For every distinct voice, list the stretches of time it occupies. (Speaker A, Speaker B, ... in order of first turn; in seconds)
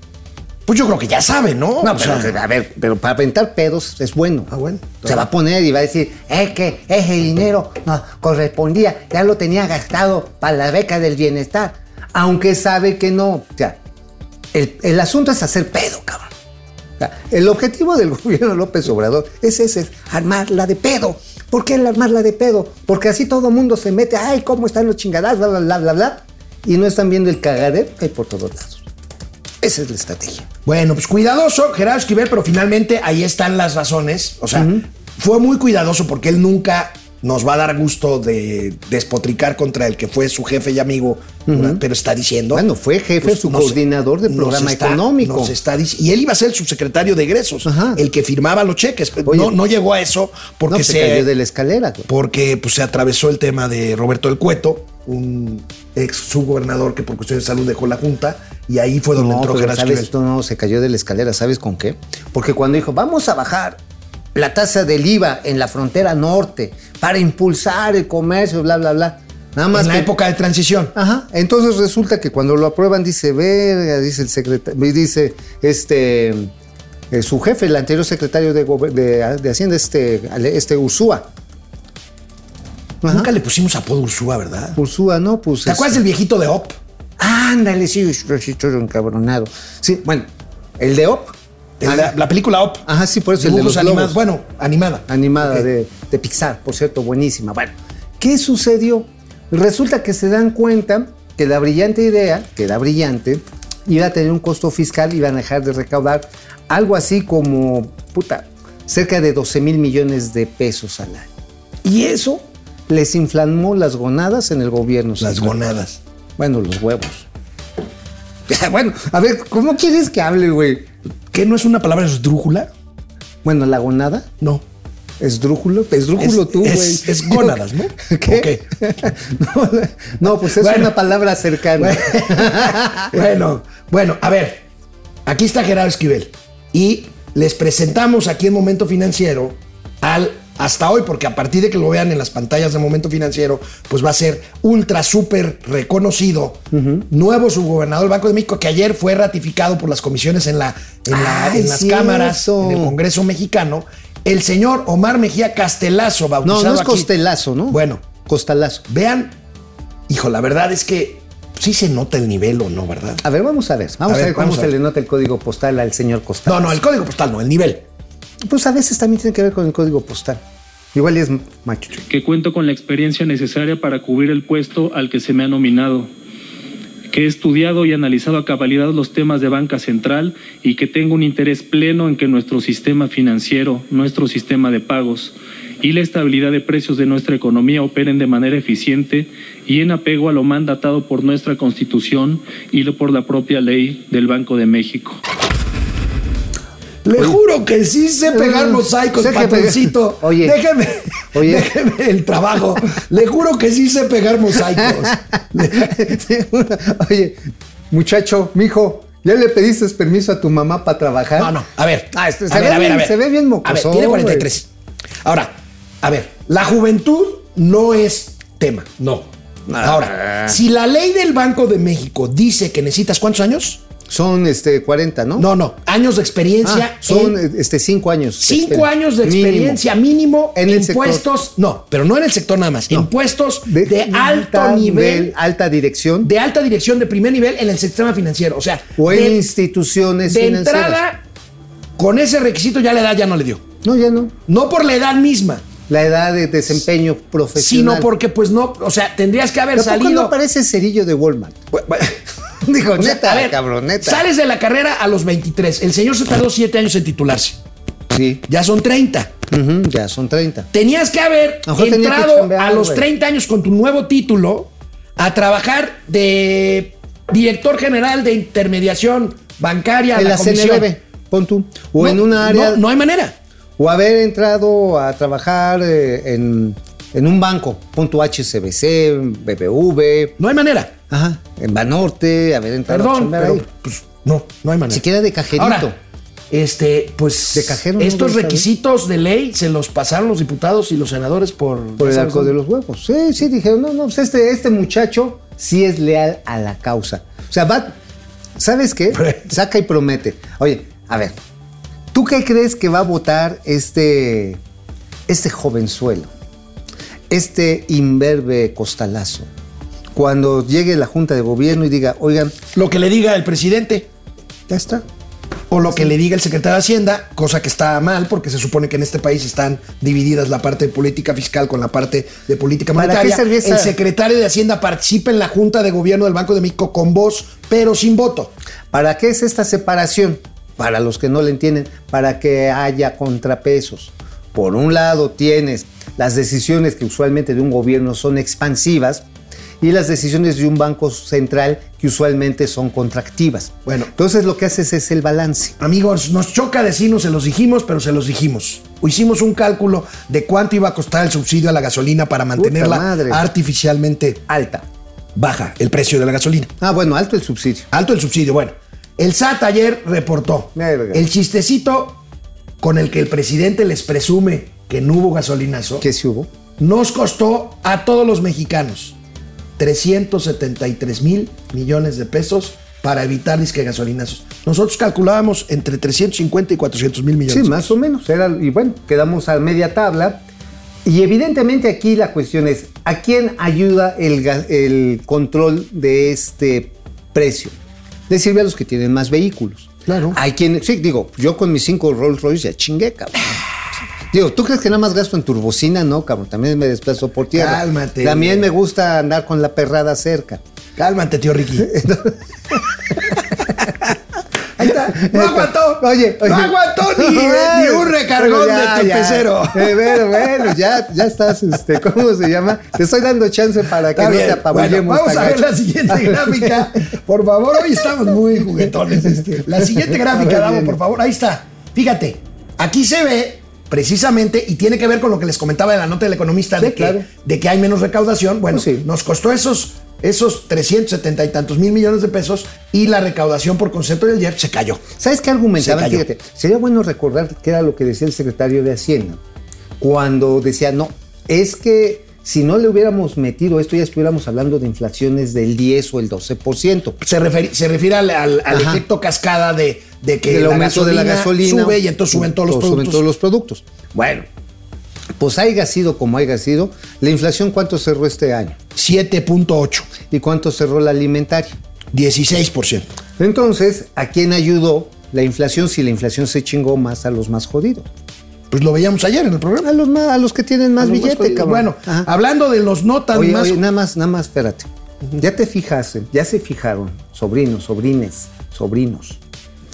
Speaker A: 0.7-2.4, 4.5-5.3, 30.6-42.6, 43.2-51.3, 52.1-60.1, 69.7-70.9, 83.1-84.8, 85.6-86.8, 91.8-92.8, 93.4-95.7, 111.8-112.4, 115.2-116.0, 121.3-122.7, 126.2-128.7, 130.2-131.0, 131.8-134.6, 135.2-157.1, 157.7-158.1, 158.9-159.4, 160.1-163.2, 164.1-164.7, 166.4-167.8, 197.0-206.0, 211.4-214.7, 215.2-219.3, 219.8-223.8, 225.3-227.4, 228.4-235.3, 236.2-239.4, 240.3-241.2, 242.0-243.6, 244.5-245.6, 247.6-250.3, 251.7-252.2, 252.9-257.6, 258.5-259.3, 260.7-270.9, 272.0-273.4, 280.4-280.9, 282.9-285.0, 285.5-285.9, 286.5-292.5, 299.1-299.4, 312.7-314.1, 315.7-328.5, 343.9-344.1, 345.8-354.4, 355.4-356.7, 357.9-362.2, 362.8-366.0, 366.8-369.1, 369.8-377.9, 390.1-390.4, 397.5-398.7, 401.0-401.9, 404.8-410.9, 414.1-435.0, 435.8-436.3, 447.2-453.2, 458.9-460.1, 462.1-463.1, 468.7-469.9, 471.0-473.8
Speaker B: 1.8-4.5, 5.0-13.8, 14.5-16.3, 17.0-28.8, 29.6-30.5, 34.5-34.8, 41.5-41.8, 42.5-45.5, 47.6-48.0, 49.2-49.5, 50.7-52.1, 59.1-63.8, 64.3-70.1, 70.9-76.5, 77.1-81.3, 83.0-83.3, 84.8-86.0, 87.2-92.1, 92.8-94.2, 95.1-111.3, 112.9-115.5, 116.4-117.2, 118.5-120.9, 123.4-124.3, 125.2-133.1, 146.7-147.1, 151.1-152.9, 156.4-158.8, 163.2-166.8, 168.4-170.4, 170.9-172.0, 198.3-200.6, 201.3-201.7, 204.7-211.5, 212.1-214.5, 219.7-220.6, 224.1-225.5, 226.6-229.8, 230.5-231.2, 233.7-236.3, 239.0-241.0, 243.8-244.3, 245.9-248.1, 249.7-251.6, 252.6-254.2, 258.1-258.4, 259.5-260.7, 261.6-263.0, 270.1-272.8, 273.8-280.4, 281.1-283.6, 284.9-285.9, 287.5-288.7, 292.0-297.9, 298.6-301.3, 302.1-304.6, 305.3-306.3, 307.3-309.5, 310.1-312.5, 314.7-315.0, 322.9-323.9, 328.9-339.2, 339.8-345.8, 352.6-353.4, 354.5-354.8, 356.8-357.9, 360.7-361.2, 366.0-366.5, 377.5-380.4, 381.0-387.7, 388.3-393.6, 394.3-400.6, 401.8-404.1, 404.8-417.1, 418.6-421.0, 426.8-427.3, 428.7-429.1, 435.2-439.4, 440.0-447.2, 448.7-449.0, 450.5-454.4, 455.4-458.8, 460.3-461.8, 463.4-468.1, 469.8-472.3, 473.3-479.4
Speaker C: 172.1-176.1, 177.1-195.2